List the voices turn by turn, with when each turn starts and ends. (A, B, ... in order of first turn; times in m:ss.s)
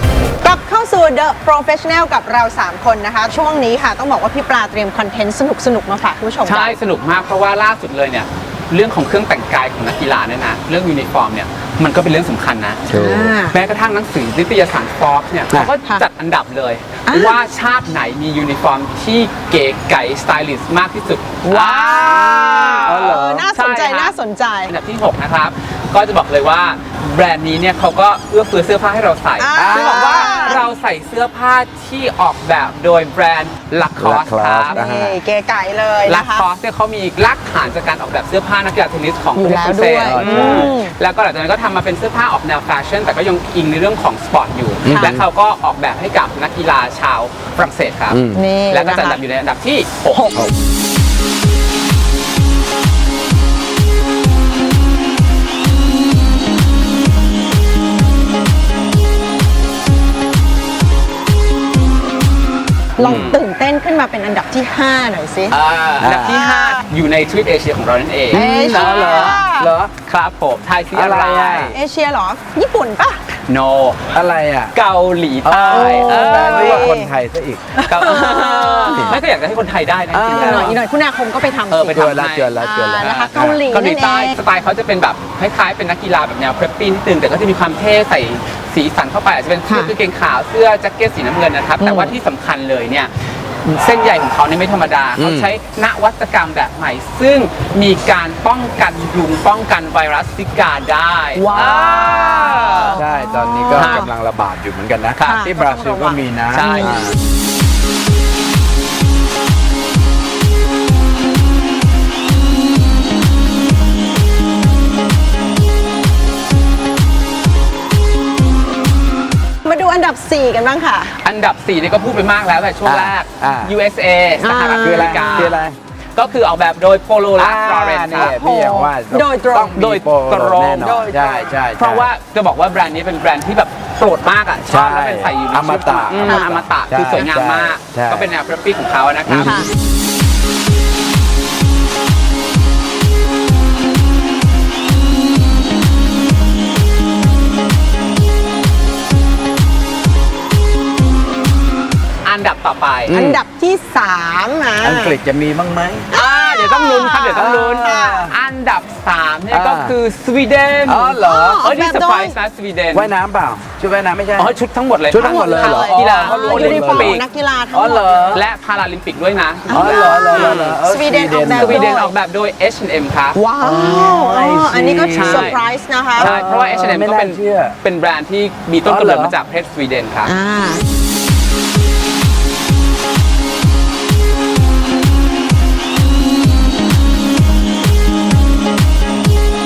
0:00.4-0:06.8 A
0:06.4-0:12.9 B
0:12.9-0:13.4 C
0:12.9-0:13.6 A
0:13.5-0:24.1 B
0:17.1-0:17.4 A
0:21.4-0:24.7 A
0:22.8-0:23.4 C
0:24.7-0:34.8 B
0:29.4-0:30.6 A
0:29.5-0:30.6 C
0:34.0-0:35.2 C
0:34.7-0:36.4 A
0:36.0-0:50.3 B
0:39.4-0:40.9 A
0:40.0-0:40.7 C
0:44.8-0:45.2 C
0:44.9-0:45.2 A
0:48.1-0:48.4 C
0:48.3-0:49.2 A
1:03.0-1:05.6 A
1:03.0-1:03.4 B
1:05.5-1:09.4 B
1:06.0-1:06.4 C
1:06.3-1:06.9 A
1:08.3-1:09.9 C
1:08.3-1:09.8 A
1:10.0-1:11.8 B
1:10.9-1:11.7 C
1:11.7-1:13.4 A
1:13.5-1:14.0 B
1:14.1-1:14.7 C
1:14.7-1:16.9 B
1:15.4-1:17.8 C
1:15.7-1:17.1 A
1:17.8-1:19.2 A
1:17.9-1:20.8 B
1:18.9-1:19.2 C
1:20.1-1:20.7 C
1:20.2-1:24.4 A
1:21.7-1:33.1 B
1:21.9-1:23.6 C
1:29.7-1:29.9 A
1:31.8-1:32.1 A
1:33.6-1:43.0 B
1:35.2-1:35.5 C
1:41.3-1:44.1 A
1:41.5-1:41.8 C
1:42.9-1:47.2 C
1:43.7-1:44.1 B
1:45.2-1:45.5 B
1:45.2-1:46.9 A
1:46.5-1:47.0 B
1:59.6-2:01.1 A
2:01.1-2:05.6 B
2:02.8-2:03.7 C
2:04.4-2:05.6 A
2:04.8-2:05.8 C
2:06.2-2:08.4 B
2:07.3-2:12.1 C
2:08.2-2:09.8 A
2:09.6-2:11.1 B
2:10.8-2:11.5 A
2:11.7-2:19.7 B
2:14.7-2:18.3 C
2:16.2-2:16.5 A
2:19.3-2:19.7 C
2:19.4-2:19.7 A
2:32.2-2:33.2 B
2:33.0-2:33.4 C
2:33.1-2:35.2 A
2:34.8-2:36.1 C
2:36.1-2:38.3 A
2:36.1-2:43.1 B
2:37.3-2:38.3 C
2:39.5-2:40.0 C
2:40.8-2:41.7 C
2:41.2-2:42.4 A
2:42.9-2:44.6 C
2:44.4-2:47.2 B
2:45.1-2:47.2 C
2:45.2-2:48.4 A
2:47.7-2:48.4 C
2:48.3-2:50.8 B
2:49.7-2:52.1 A
2:49.7-2:51.9 C
2:51.5-2:53.4 B
2:53.3-2:56.3 A
2:53.6-2:55.6 C
2:55.1-2:55.6 B
2:56.2-2:57.8 C
2:56.2-3:00.3 B
2:58.8-2:59.3 C
3:00.2-3:00.8 A